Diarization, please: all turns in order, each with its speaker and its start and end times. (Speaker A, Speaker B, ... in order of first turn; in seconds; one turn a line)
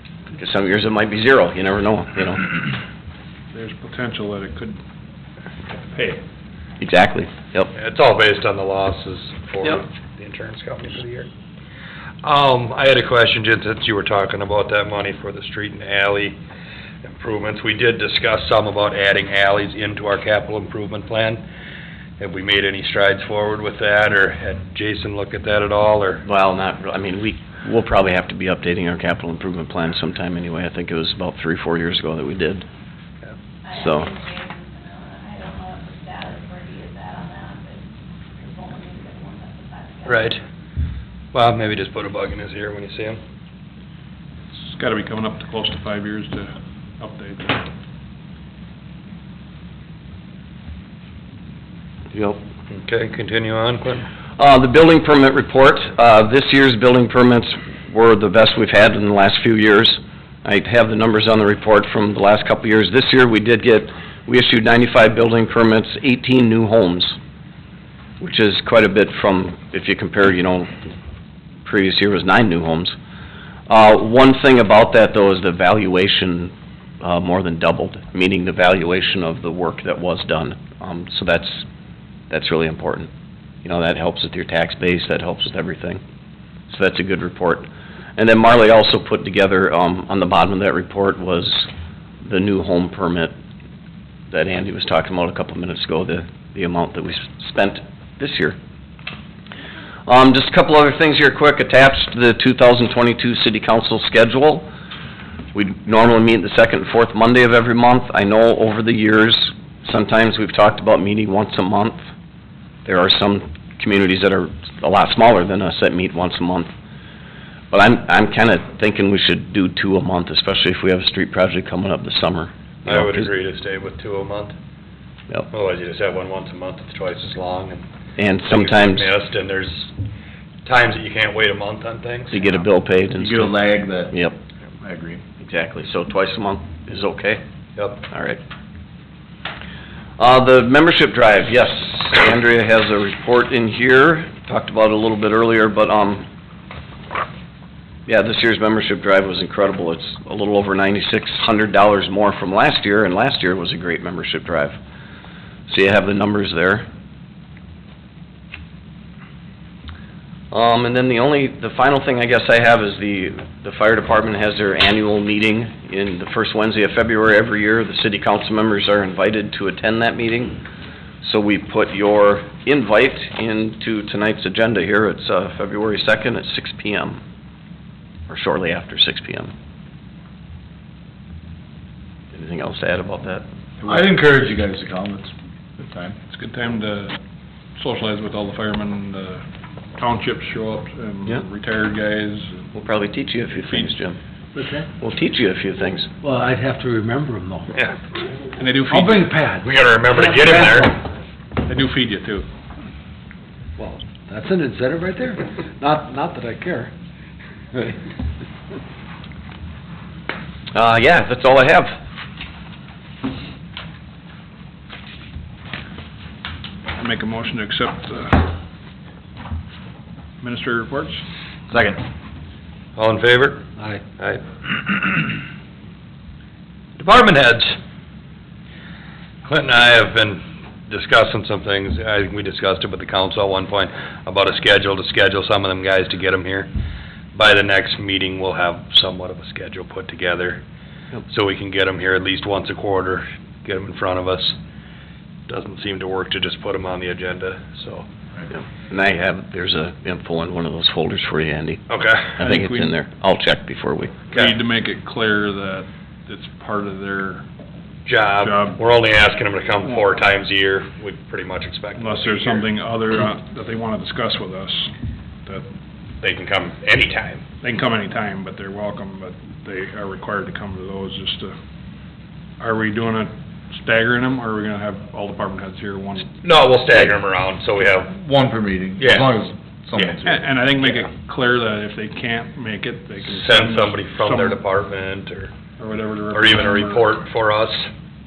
Speaker A: 0.4-2.6
Speaker B: 3.5-4.8
Speaker B: 5.9-6.2
Speaker A: 6.8-7.7
Speaker C: 7.8-11.3
Speaker C: 12.2-16.4
Speaker C: 17.0-21.4
Speaker C: 22.2-26.2
Speaker A: 26.2-32.6
Speaker D: 33.6-40.4
Speaker A: 33.8-34.1
Speaker C: 40.1-40.4
Speaker C: 41.3-43.2
Speaker B: 44.6-47.7
Speaker A: 52.1-52.4
Speaker C: 52.7-54.1
Speaker A: 54.4-67.2
Speaker A: 68.2-70.7
Speaker A: 71.7-73.0
Speaker A: 73.7-81.7
Speaker A: 82.3-83.1
Speaker A: 83.6-86.0
Speaker A: 86.7-91.7
Speaker A: 92.2-93.3
Speaker A: 94.3-98.6
Speaker A: 100.1-104.7
Speaker A: 105.5-112.1
Speaker A: 112.8-116.7
Speaker A: 117.7-123.3
Speaker C: 122.8-124.5
Speaker C: 125.5-127.8
Speaker A: 128.2-129.1
Speaker C: 128.4-129.9
Speaker C: 130.7-132.5
Speaker A: 132.3-133.6
Speaker E: 133.1-134.2
Speaker E: 134.8-135.2
Speaker A: 135.4-137.4
Speaker C: 137.8-138.1
Speaker A: 138.1-138.4
Speaker A: 140.2-146.2
Speaker A: 148.1-154.8
Speaker A: 155.7-156.9
Speaker A: 160.5-170.6
Speaker A: 171.2-177.2
Speaker A: 178.3-179.5
Speaker A: 182.3-184.0
Speaker E: 183.8-186.2
Speaker B: 186.3-187.2
Speaker B: 187.8-189.4
Speaker B: 190.0-192.6
Speaker A: 192.7-194.2
Speaker F: 194.6-194.9
Speaker A: 195.0-196.1
Speaker F: 196.2-197.7
Speaker B: 198.6-199.3
Speaker F: 198.9-201.0
Speaker C: 199.6-200.9
Speaker B: 201.6-202.5
Speaker F: 203.8-206.9
Speaker A: 210.7-212.0
Speaker B: 217.0-218.5
Speaker B: 220.4-221.2
Speaker E: 221.7-222.0
Speaker C: 223.0-223.7
Speaker C: 224.2-225.4
Speaker C: 227.0-227.8
Speaker C: 229.4-236.7
Speaker C: 237.3-240.6
Speaker C: 241.3-244.6
Speaker C: 245.5-248.1
Speaker A: 248.5-251.8
Speaker C: 251.9-252.4
Speaker A: 252.4-254.2
Speaker B: 252.4-252.9
Speaker B: 254.3-257.4
Speaker C: 254.3-254.6
Speaker C: 258.1-262.7
Speaker B: 258.4-258.8
Speaker B: 262.0-264.9
Speaker C: 266.2-267.4
Speaker B: 267.6-271.5
Speaker B: 272.6-276.3
Speaker C: 276.4-278.1
Speaker E: 278.1-280.5
Speaker C: 279.0-279.3
Speaker B: 280.2-284.6
Speaker C: 283.3-285.5
Speaker B: 285.8-287.1
Speaker C: 286.3-287.9